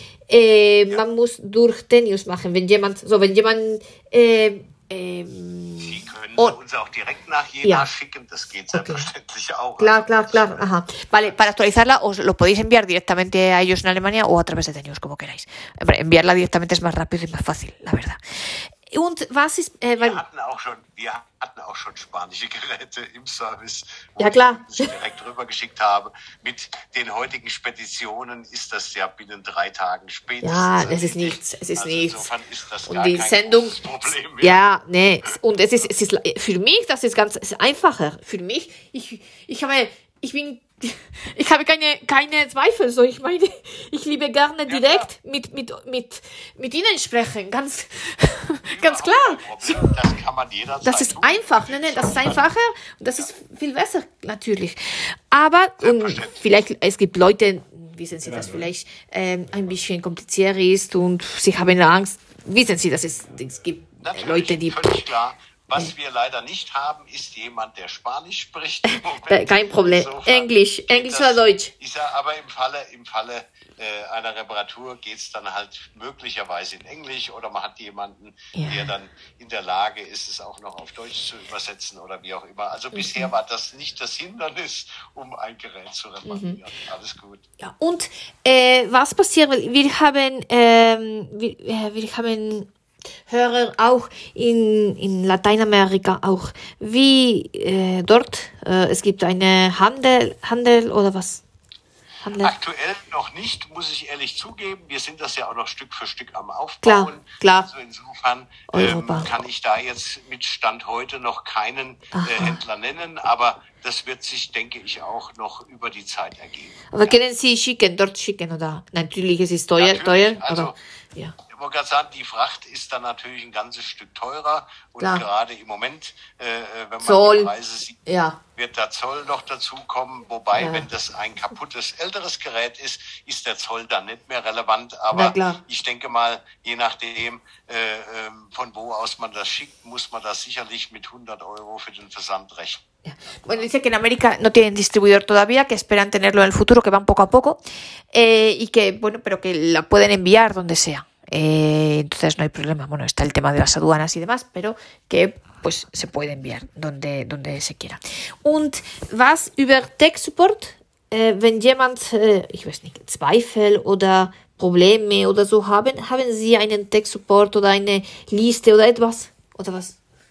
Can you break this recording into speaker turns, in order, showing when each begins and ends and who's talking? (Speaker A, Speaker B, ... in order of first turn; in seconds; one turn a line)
Speaker A: 0.3-6.5
Speaker B: 5.8-10.6
Speaker A: 8.7-9.1
Speaker A: 9.8-20.2
Speaker B: 11.2-11.5
Speaker B: 20.0-34.6
Speaker A: 24.2-24.9
Speaker A: 30.4-32.3
Speaker A: 32.9-33.8
Speaker A: 34.4-49.9
Speaker B: 44.6-45.1
Speaker B: 48.6-52.5
Speaker A: 50.8-65.0
Speaker B: 55.8-56.4
Speaker B: 64.0-87.4
Speaker A: 68.8-71.7
Speaker A: 78.5-78.9
Speaker A: 82.9-83.3
Speaker A: 86.2-86.6
Speaker A: 87.6-92.7
Speaker A: 93.3-101.4
Speaker A: 102.2-102.5
Speaker B: 102.4-117.2
Speaker A: 106.8-107.7
Speaker A: 108.7-109.3
Speaker A: 112.1-112.6
Speaker A: 116.9-121.3
Speaker B: 119.8-120.8
Speaker B: 121.5-128.0
Speaker A: 125.0-125.2
Speaker A: 127.0-127.5
Speaker A: 128.1-128.4
Speaker B: 128.6-142.9
Speaker A: 130.5-130.8
Speaker A: 135.1-135.6
Speaker A: 143.0-147.6
Speaker A: 148.1-169.9